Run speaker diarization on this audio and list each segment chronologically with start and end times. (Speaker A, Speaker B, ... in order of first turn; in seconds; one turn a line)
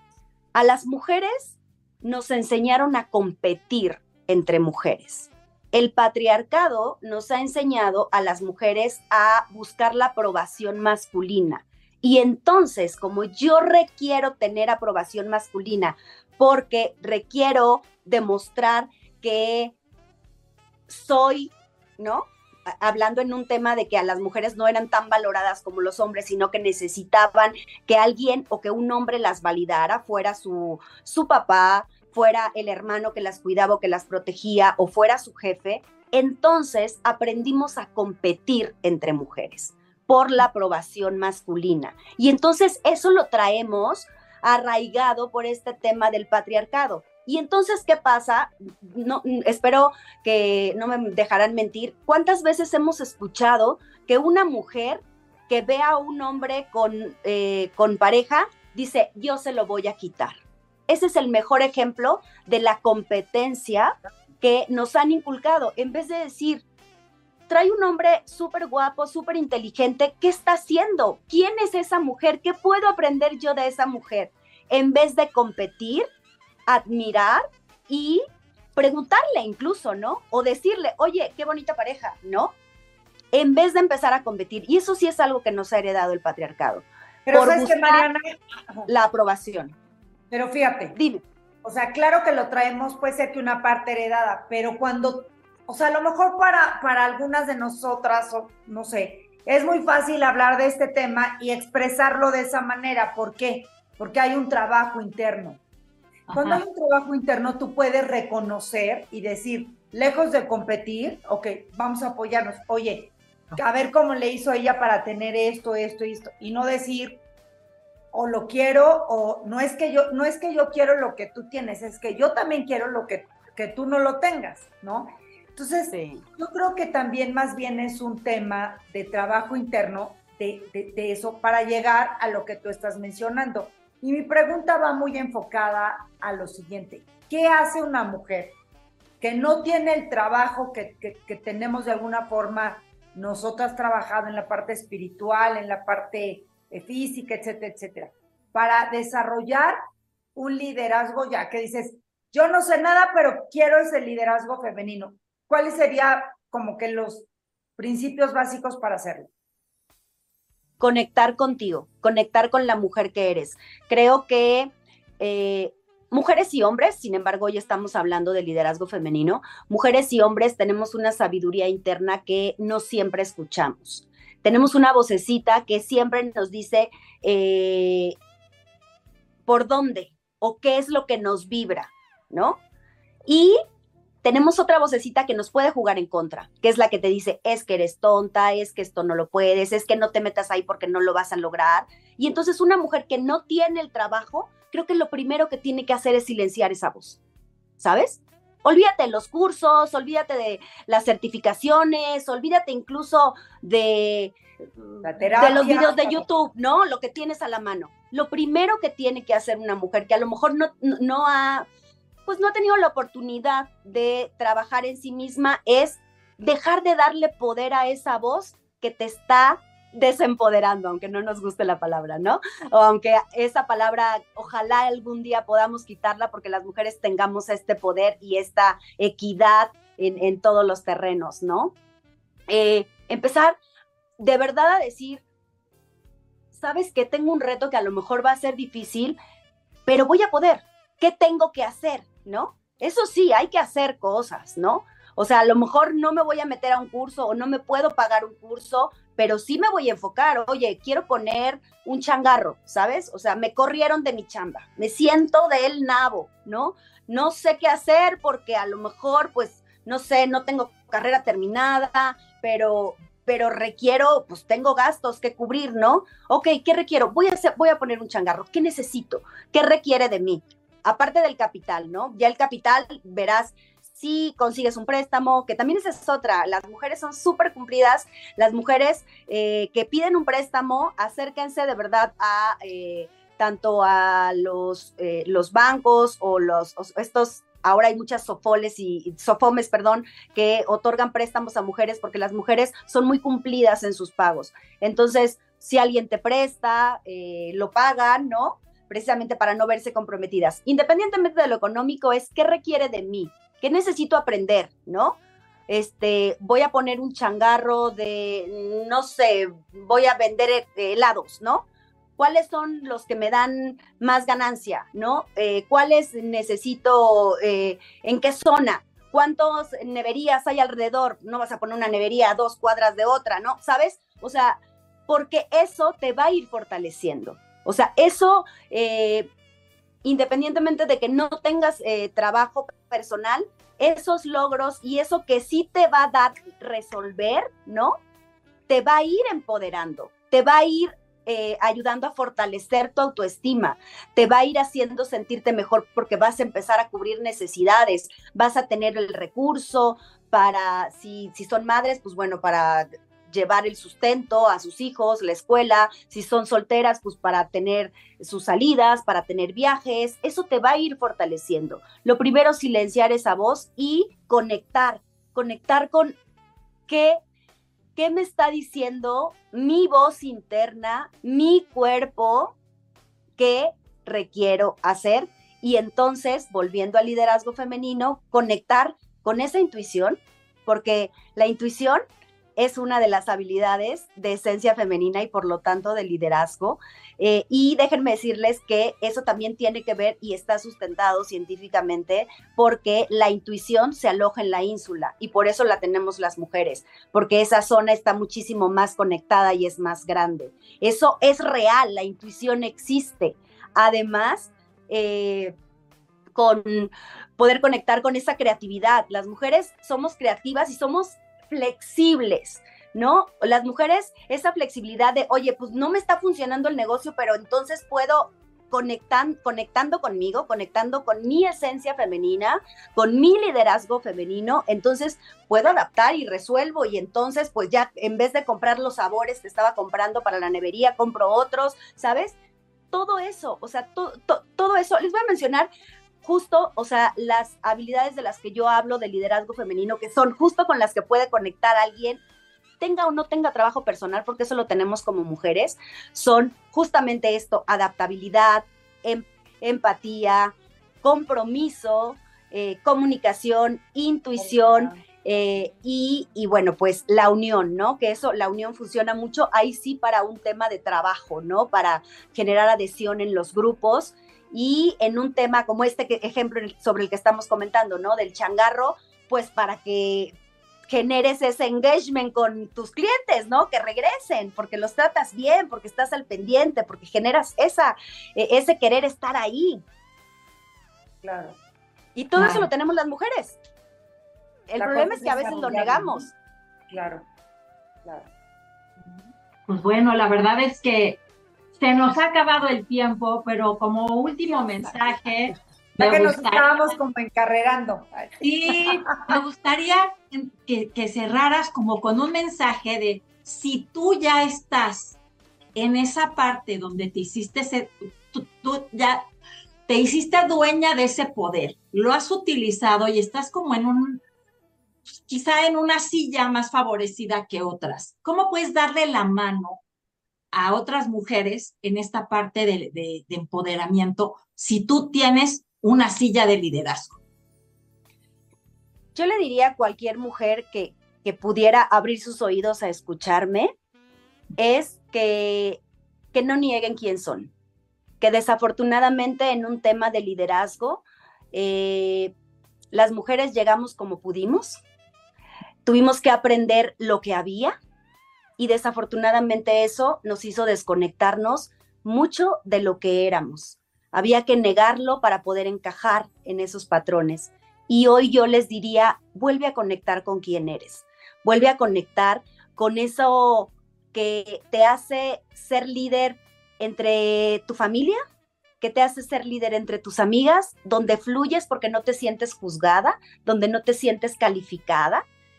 Speaker A: 0.6-19.7
Speaker A: 20.9-66.6
Speaker A: 67.5-76.1
Speaker A: 76.7-78.2
Speaker A: 78.8-82.5
Speaker A: 83.3-88.1
Speaker B: 87.2-88.9
Speaker A: 88.9-89.8
Speaker B: 90.3-91.0
Speaker A: 91.0-91.2
Speaker B: 91.6-105.6
Speaker C: 106.3-106.6
Speaker B: 106.3-117.2
Speaker B: 118.1-138.6
Speaker A: 125.9-126.2
Speaker B: 139.2-149.8
Speaker B: 150.3-159.3
Speaker A: 160.8-178.1
Speaker A: 179.5-182.6
Speaker A: 183.3-183.6
Speaker A: 184.2-197.2
Speaker A: 197.8-204.4
Speaker B: 205.0-206.2
Speaker A: 205.4-211.7
Speaker A: 212.2-231.7
Speaker A: 232.5-233.6
Speaker A: 234.2-235.2
Speaker A: 236.5-239.2
Speaker A: 239.9-305.2
Speaker A: 305.7-311.6
Speaker A: 312.2-329.3
Speaker A: 330.0-338.0
Speaker A: 338.7-366.1
Speaker A: 366.9-367.2
Speaker A: 367.9-372.6
Speaker A: 373.4-382.0
Speaker A: 382.6-405.5
Speaker A: 406.4-432.4
Speaker A: 432.9-435.7
Speaker A: 436.2-442.2
Speaker A: 442.8-470.4
Speaker B: 454.4-455.0
Speaker A: 470.9-479.8
Speaker B: 481.2-481.6
Speaker A: 482.1-483.6
Speaker C: 482.4-482.7
Speaker A: 484.7-486.3
Speaker B: 484.8-486.3
Speaker B: 486.9-487.2
Speaker B: 488.0-488.3
Speaker B: 489.0-489.3
Speaker C: 489.7-491.2
Speaker C: 491.8-496.9
Speaker B: 496.0-499.3
Speaker C: 498.4-505.2
Speaker C: 505.7-509.2
Speaker C: 509.9-514.2
Speaker C: 515.3-519.8
Speaker C: 520.5-527.2
Speaker A: 529.1-533.7
Speaker A: 534.6-535.8
Speaker A: 536.3-537.5
Speaker A: 538.2-542.3
Speaker A: 542.9-544.8
Speaker A: 545.9-547.7
Speaker A: 548.6-568.2
Speaker A: 568.8-575.2